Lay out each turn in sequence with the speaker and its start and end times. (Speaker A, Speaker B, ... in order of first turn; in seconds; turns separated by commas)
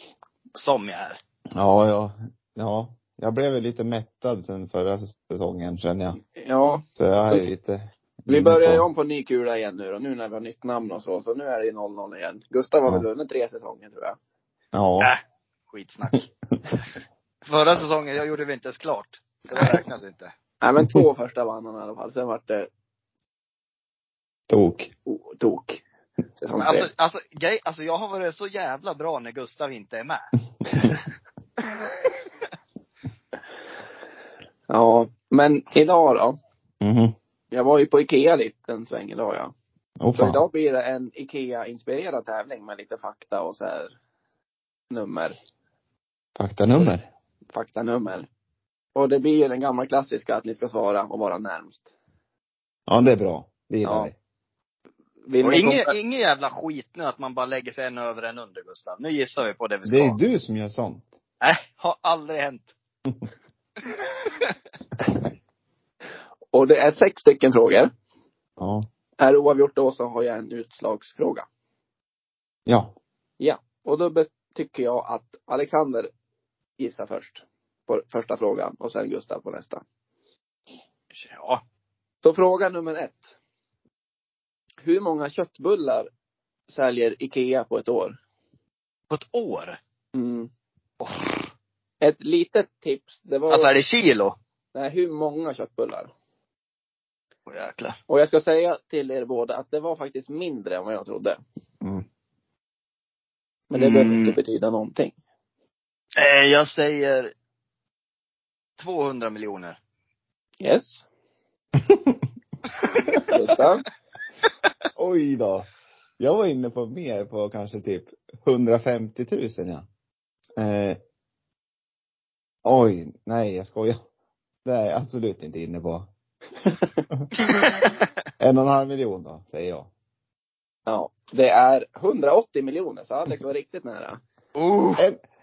Speaker A: 0.5-1.2, Speaker B: 1.5-6.2, Speaker C: 6.3-7.5, Speaker B: 7.0-8.8, Speaker C: 8.3-14.2, Speaker B: 14.7-15.1, Speaker A: 15.0-16.2, Speaker A: 17.5-20.3, Speaker C: 20.6-22.7, Speaker B: 24.5-24.9, Speaker C: 25.1-25.8, Speaker C: 26.4-26.9, Speaker A: 26.6-30.3, Speaker C: 34.7-36.4, Speaker B: 36.8-37.1, Speaker C: 37.5-39.5, Speaker B: 40.0-40.4, Speaker C: 40.1-43.9, Speaker C: 44.9-45.4, Speaker B: 46.4-47.0, Speaker C: 47.5-48.3, Speaker C: 48.9-51.8, Speaker B: 52.9-54.1, Speaker C: 53.8-54.1, Speaker C: 55.2-56.0, Speaker A: 55.4-60.2, Speaker B: 59.9-61.1, Speaker A: 61.4-62.7, Speaker A: 63.8-64.5, Speaker C: 66.5-67.9, Speaker B: 68.6-68.8, Speaker C: 69.2-71.5, Speaker B: 72.7-72.9, Speaker C: 73.4-76.1, Speaker C: 76.8-79.8, Speaker A: 81.1-81.6, Speaker C: 82.2-83.3, Speaker C: 84.8-86.1, Speaker C: 86.7-88.2, Speaker A: 89.1-89.8, Speaker C: 90.1-90.5, Speaker A: 91.0-91.5, Speaker C: 92.0-93.7, Speaker A: 93.5-94.3, Speaker C: 94.7-96.1, Speaker A: 97.5-98.0, Speaker C: 98.1-101.4, Speaker C: 103.7-105.1, Speaker A: 103.7-104.4, Speaker A: 106.2-107.3, Speaker A: 108.8-109.8, Speaker C: 110.6-111.0, Speaker B: 111.8-112.2, Speaker C: 113.3-113.8, Speaker B: 115.0-115.7, Speaker B: 116.2-119.8, Speaker B: 120.6-121.0, Speaker B: 122.6-124.0, Speaker B: 124.6-126.1, Speaker B: 128.4-129.9, Speaker C: 130.9-134.2, Speaker A: 134.5-135.1